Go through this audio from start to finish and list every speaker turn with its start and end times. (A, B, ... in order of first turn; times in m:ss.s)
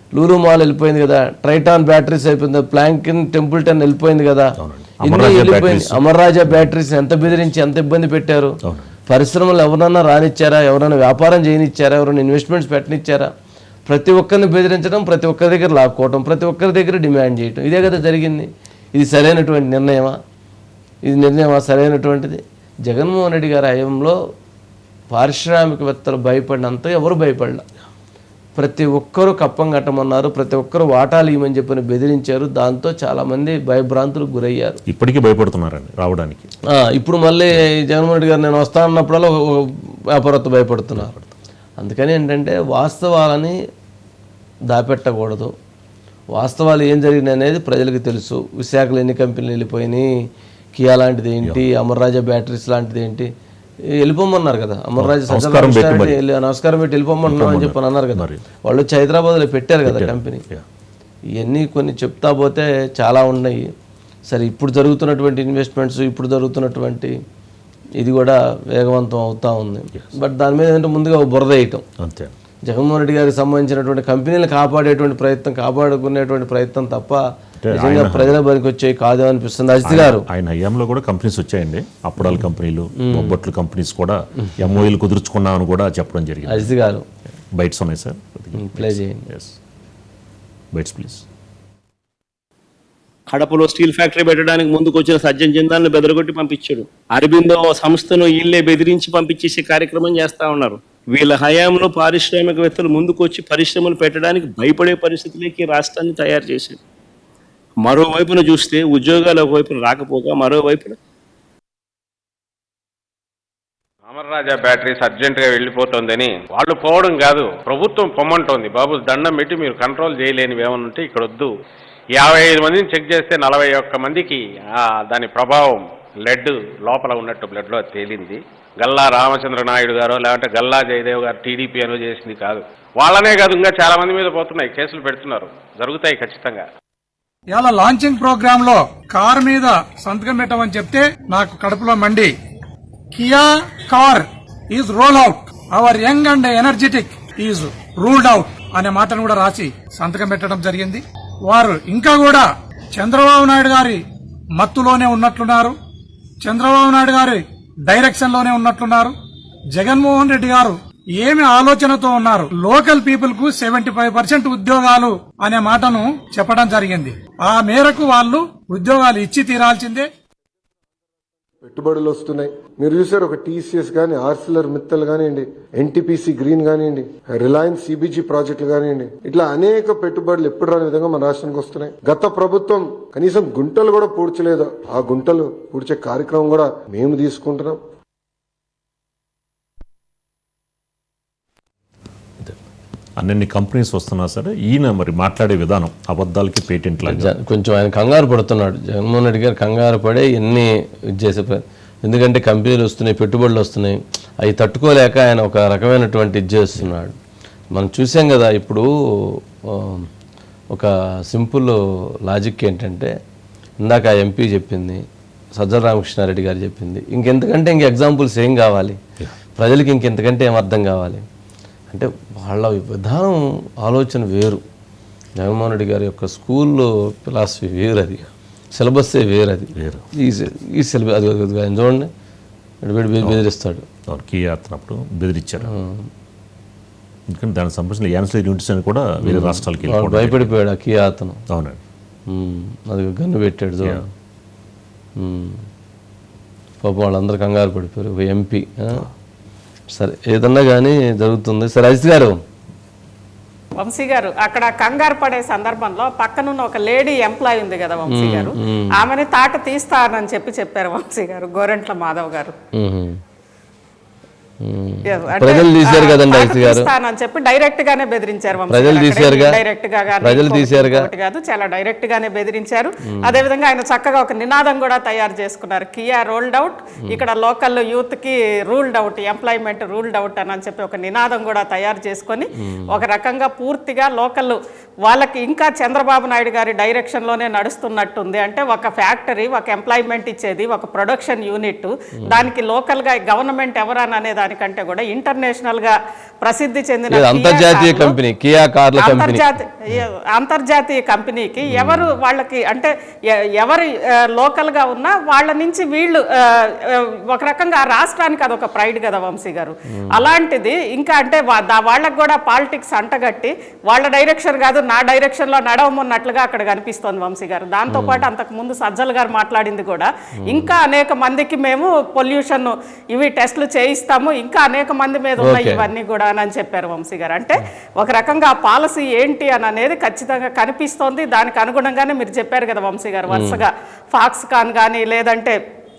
0:00.1-0:08.6 A
0:04.6-0:07.5 B
0:08.6-0:08.9 B
0:09.1-0:13.3 A
0:13.9-0:20.2 A
0:21.0-0:24.2 A
0:25.1-0:27.6 A
0:28.6-0:34.8 A
0:34.9-0:36.5 B
0:36.7-0:41.1 A
0:41.0-0:41.3 B
0:41.8-0:43.6 A
0:44.7-0:45.5 A
0:46.3-0:50.1 A
0:50.8-0:53.3 A
0:54.0-1:00.4 A
0:55.0-0:56.2 B
0:57.3-0:58.4 B
0:59.8-1:00.6 B
1:01.4-1:03.7 A
1:04.3-1:07.1 A
1:08.0-1:11.8 A
1:12.0-1:12.3 B
1:12.7-1:20.2 A
1:17.6-1:18.4 B
1:19.8-1:26.7 B
1:23.1-1:23.3 A
1:26.5-1:27.0 A
1:27.5-1:29.6 B
1:28.6-1:29.2 A
1:30.7-1:31.2 B
1:33.3-1:46.8 C
1:47.8-1:51.0 C
1:54.1-2:01.5 D
2:02.1-2:16.6 D
2:17.5-2:22.3 E
2:23.1-2:34.0 E
2:34.6-2:35.8 E
2:36.4-2:39.1 E
2:39.7-2:50.1 E
2:51.6-3:07.8 F
3:13.2-3:17.3 B
3:17.1-3:27.2 A
3:27.7-3:28.8 A
3:29.7-3:30.1 A
3:30.7-3:33.1 A
3:33.8-3:35.0 A
3:35.6-3:39.0 A
3:39.6-3:41.2 A
3:41.9-3:44.6 A
3:45.4-3:52.1 A
3:49.8-3:50.0 B
3:52.8-3:53.8 A
3:54.1-3:55.7 B
3:55.7-3:56.0 A
3:57.3-4:00.5 B
3:59.2-4:01.4 A
4:01.5-4:01.8 B
4:02.3-4:04.0 A
4:05.2-4:05.6 A
4:06.8-4:09.1 A
4:09.9-4:12.3 A
4:13.8-4:22.5 G
4:18.1-4:19.0 A
4:22.8-4:23.2 A
4:24.6-4:26.9 A
4:25.0-4:58.2 G
4:28.7-4:29.6 A
4:30.2-4:31.1 A
4:42.7-4:43.0 A
4:57.1-4:59.4 A
4:58.9-5:02.9 G
5:01.7-5:02.1 A
5:03.6-5:35.5 G
5:10.0-5:10.2 A
5:17.9-5:18.2 A
5:25.4-5:25.9 A
5:33.3-5:33.6 A